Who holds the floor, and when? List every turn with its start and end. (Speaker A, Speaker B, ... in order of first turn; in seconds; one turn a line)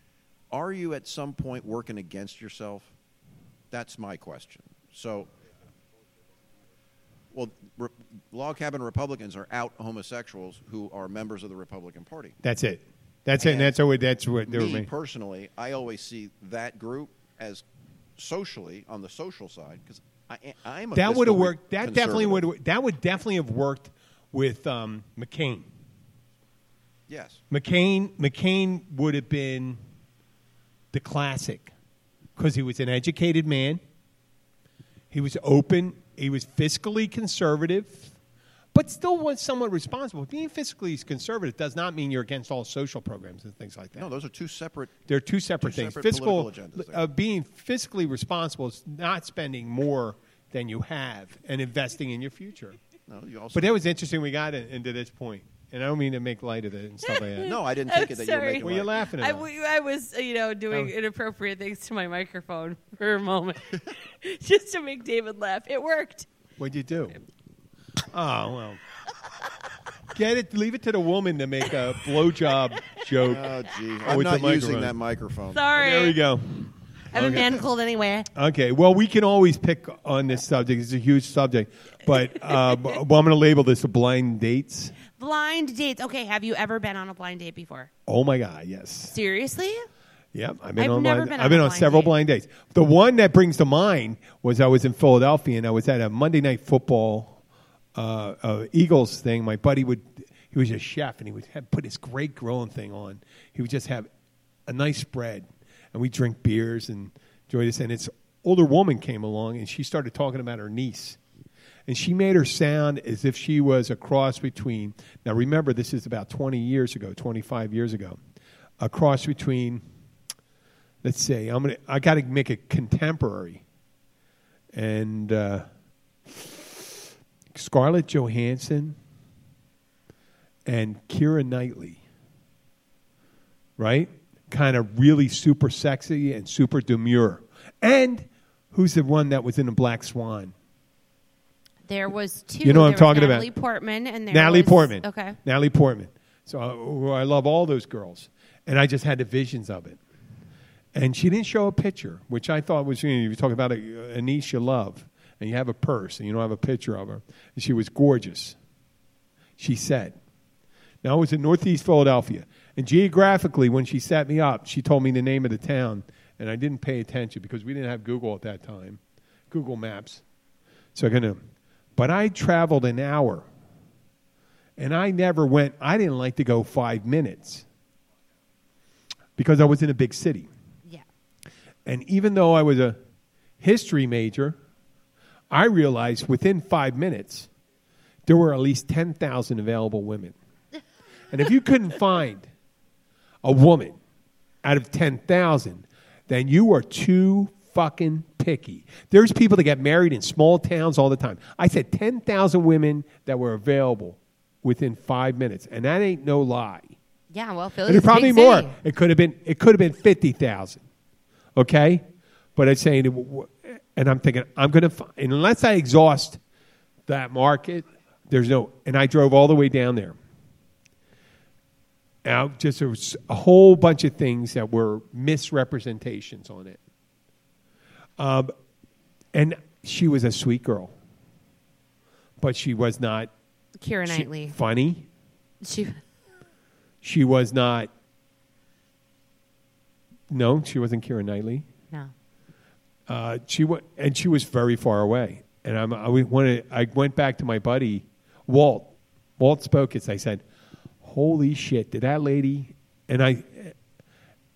Speaker A: 0.5-2.9
Speaker A: 3.7-5.3
Speaker A: 7.3-12.4
Speaker B: 12.4-14.9
Speaker A: 13.4-13.7
Speaker A: 14.5-17.6
Speaker A: 18.2-22.4
Speaker B: 20.9-25.7
Speaker A: 27.1-27.4
Speaker B: 27.5-29.8
Speaker B: 30.9-31.7
Speaker B: 32.4-33.8
Speaker B: 35.1-38.1
Speaker B: 38.7-44.1
Speaker A: 44.0-45.0
Speaker B: 45.1-52.8
Speaker A: 45.6-47.0
Speaker A: 53.1-53.8
Speaker B: 53.5-57.6
Speaker C: 57.0-66.3
Speaker A: 57.4-58.9
Speaker B: 58.6-59.5
Speaker B: 66.6-67.2
Speaker B: 68.1-68.8
Speaker B: 70.1-74.9
Speaker A: 73.2-75.7
Speaker C: 75.5-76.2
Speaker B: 75.8-77.6
Speaker C: 77.1-78.3
Speaker B: 78.3-84.9
Speaker C: 85.1-87.9
Speaker B: 88.1-89.1
Speaker C: 89.1-89.9
Speaker B: 90.3-97.4
Speaker C: 90.8-92.1
Speaker B: 97.9-104.1
Speaker B: 104.7-111.2
Speaker B: 111.9-118.2
Speaker B: 118.8-119.8
Speaker B: 121.0-123.6
Speaker B: 124.7-125.7
Speaker B: 126.3-129.0
Speaker B: 130.7-132.0
Speaker B: 133.8-140.5
Speaker C: 141.8-145.4
Speaker B: 142.6-143.5
Speaker B: 144.3-150.0
Speaker B: 150.9-158.6
Speaker B: 159.6-160.2
Speaker B: 161.0-170.2
Speaker B: 170.9-171.4
Speaker B: 171.9-173.4
Speaker B: 174.8-177.6
Speaker B: 179.4-180.5
Speaker B: 181.8-183.0
Speaker B: 183.6-184.6
Speaker B: 185.5-187.5
Speaker B: 188.2-190.3
Speaker B: 191.3-192.5
Speaker B: 193.4-194.0
Speaker B: 194.6-206.9
Speaker C: 207.3-208.7
Speaker B: 207.8-210.8
Speaker B: 211.5-212.0
Speaker B: 212.6-216.4
Speaker B: 217.1-220.2
Speaker B: 222.2-226.8
Speaker B: 228.2-228.5
Speaker B: 229.3-230.9
Speaker B: 232.4-233.3
Speaker C: 233.8-234.6
Speaker B: 234.1-235.1
Speaker C: 235.6-236.0
Speaker B: 237.0-237.9
Speaker B: 240.3-241.7
Speaker B: 243.1-250.4
Speaker B: 251.0-253.8